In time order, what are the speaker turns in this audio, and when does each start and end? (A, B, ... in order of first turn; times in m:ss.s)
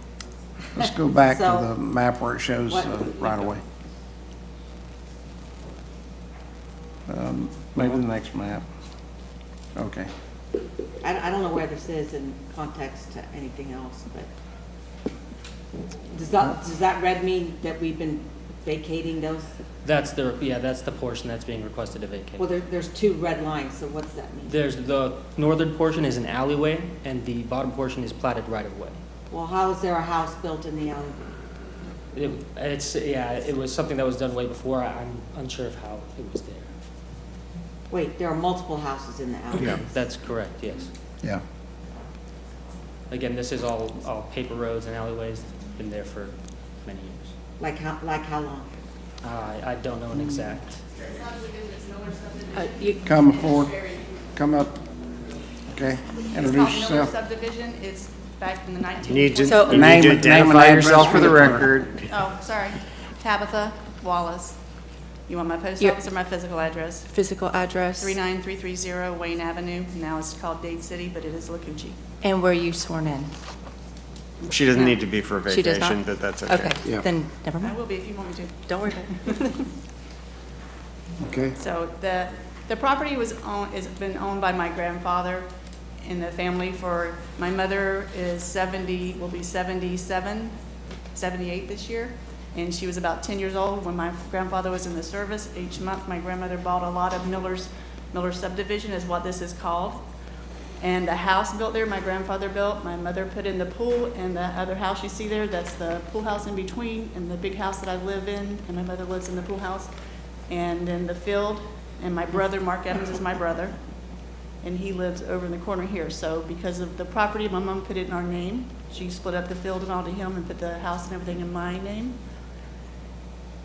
0:00.7-0:03.6 A
0:01.2-0:01.7 B
0:02.7-0:03.5 B
0:07.1-0:08.6 A
0:09.7-0:10.1 A
0:11.0-0:14.3 B
0:16.1-0:19.5 B
0:19.8-0:22.4 C
0:22.4-0:24.5 B
0:24.4-0:29.0 C
0:29.3-0:31.2 B
0:32.1-0:36.7 C
0:37.9-0:39.8 B
0:39.7-0:40.9 C
0:43.1-0:47.3 C
0:47.6-0:48.7 B
0:49.2-0:50.8 C
0:51.1-0:54.1 D
0:52.6-0:53.0 E
0:53.0-0:54.8 A
0:55.7-0:57.1 A
0:56.3-1:00.1 D
0:59.1-1:02.1 F
0:59.4-0:59.9 E
0:59.7-1:01.6 A
1:02.1-1:04.6 D
1:05.3-1:07.1 D
1:07.1-1:08.2 E
1:08.0-1:12.0 D
1:12.2-1:13.3 E
1:14.4-1:16.7 F
1:14.7-1:17.8 E
1:17.6-1:19.7 D
1:18.7-1:19.1 E
1:21.2-1:21.5 A
1:21.6-1:25.5 D
1:26.0-1:30.5 D
1:31.1-1:40.0 D
1:40.8-1:49.9 D
1:50.5-1:53.7 D
1:54.6-2:02.2 D